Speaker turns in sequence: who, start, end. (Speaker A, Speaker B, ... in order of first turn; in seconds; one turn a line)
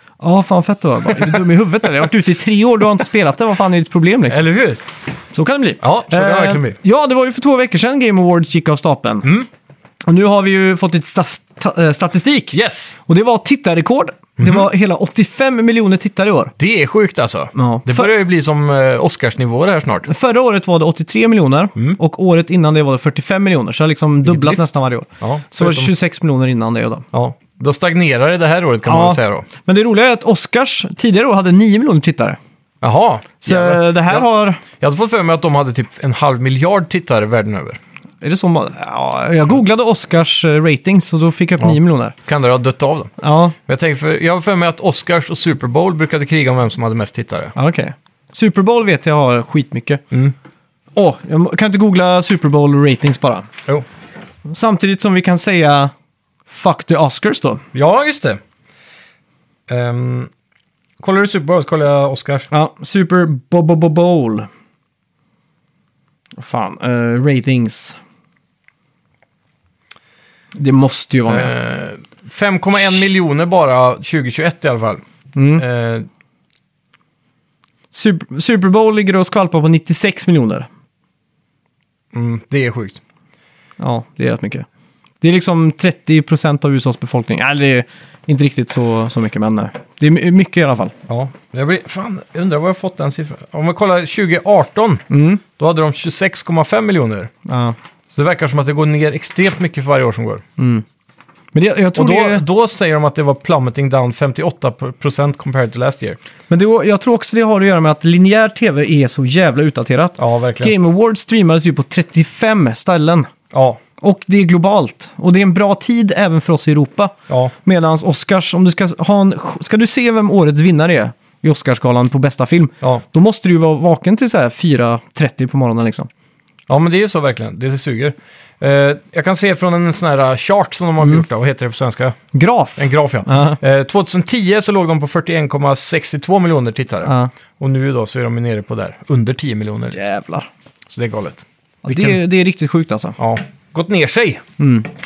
Speaker A: 0.2-4.4
Speaker B: 4.3-4.8
Speaker A: 5.3-9.3
Speaker B: 5.8-6.8
Speaker A: 10.1-16.5
Speaker B: 12.5-12.9
Speaker B: 14.4-14.7
Speaker B: 16.6-20.1
Speaker A: 17.5-18.1
Speaker A: 20.1-27.0
Speaker B: 24.2-25.9
Speaker B: 27.1-29.5
Speaker A: 28.9-32.4
Speaker B: 32.8-37.8
Speaker A: 33.4-34.6
Speaker A: 38.2-42.1
Speaker B: 42.3-43.1
Speaker A: 43.2-43.5
Speaker B: 43.6-47.5
Speaker A: 47.5-50.0
Speaker A: 51.0-53.5
Speaker A: 54.5-55.9
Speaker A: 56.5-57.6
Speaker B: 57.7-58.4
Speaker B: 59.7-60.3
Speaker B: 61.0-62.5
Speaker A: 62.5-64.5
Speaker A: 66.4-68.0
Speaker A: 70.5-71.5
Speaker B: 71.3-75.0
Speaker A: 75.3-75.6
Speaker B: 75.6-76.1
Speaker A: 77.9-80.7
Speaker B: 82.1-83.0
Speaker A: 83.8-84.7
Speaker A: 85.2-90.9
Speaker B: 91.1-97.3
Speaker A: 95.1-95.4
Speaker A: 97.5-97.7
Speaker B: 98.1-100.4
Speaker A: 100.6-100.8
Speaker A: 101.5-102.4
Speaker B: 101.9-106.2
Speaker A: 106.5-113.3
Speaker B: 110.2-110.7
Speaker B: 113.5-113.8
Speaker A: 114.0-126.1
Speaker B: 126.7-132.2
Speaker A: 132.3-133.6
Speaker B: 132.8-140.0
Speaker A: 137.0-137.3
Speaker A: 139.9-140.5
Speaker B: 140.9-142.2
Speaker A: 141.8-143.2
Speaker B: 143.2-144.4
Speaker A: 144.6-144.9